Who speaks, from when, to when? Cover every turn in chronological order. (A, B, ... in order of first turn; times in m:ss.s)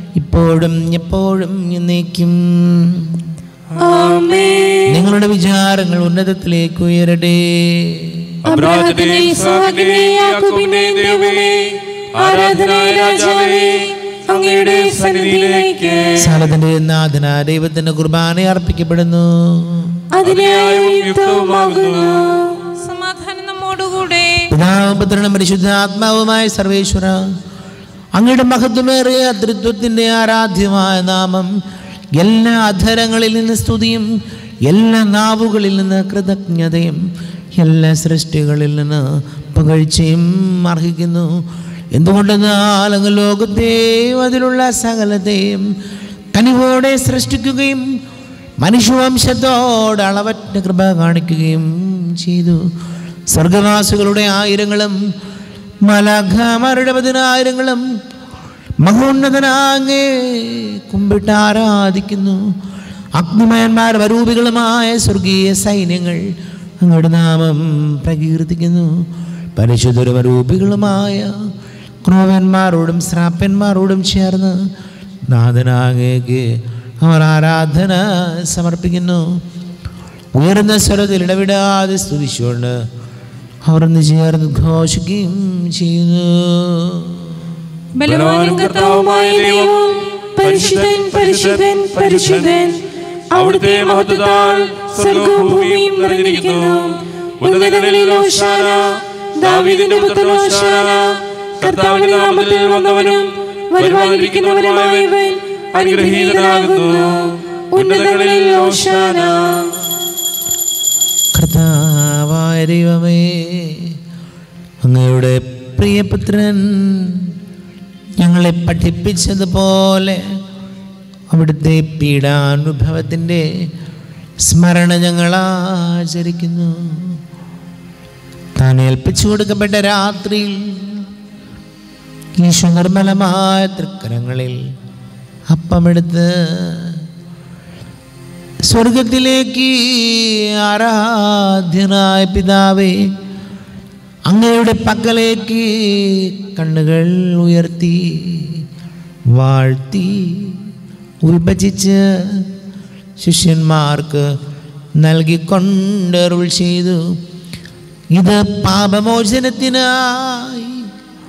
0:00.2-0:03.2 A
0:03.7-0:04.8 B
0:04.9-0:08.3 A
0:08.4-0:16.4 B
0:16.2-0:20.0 A
0:20.2-0:22.6 B
0:22.8-0:24.4 C
0:24.5-0:27.2 A
0:28.2-0:31.5 A
0:32.2-0:34.1 A
0:34.7-0:37.0 A
0:37.6-0:39.0 A
0:39.5-0:41.3 A
0:41.9-0:45.7 A
0:46.4-0:47.8 A
0:48.6-0:52.6 A
0:53.3-0:55.0 A
0:55.8-0:57.8 A
0:58.8-1:02.4 A
1:03.2-1:06.2 A
1:06.8-1:08.9 A
1:09.6-1:11.3 A
1:12.0-1:14.6 A
1:15.3-1:16.5 A
1:17.0-1:19.2 A
1:20.4-1:22.8 A
1:23.7-1:27.5 A
1:28.0-1:29.0 C
1:28.0-1:32.8 B
1:33.3-1:49.7 B
1:51.3-1:53.9 A
1:54.8-1:57.3 A
1:58.2-2:00.2 A
2:01.3-2:03.4 A
2:04.4-2:07.2 A
2:08.6-2:11.0 A
2:12.4-2:14.6 A
2:15.5-2:17.0 A
2:18.7-2:23.0 A
2:24.3-2:28.6 A
2:29.3-2:30.7 A
2:31.2-2:32.5 A
2:33.2-2:34.3 A
2:35.0-2:37.0 A
2:38.1-2:40.9 A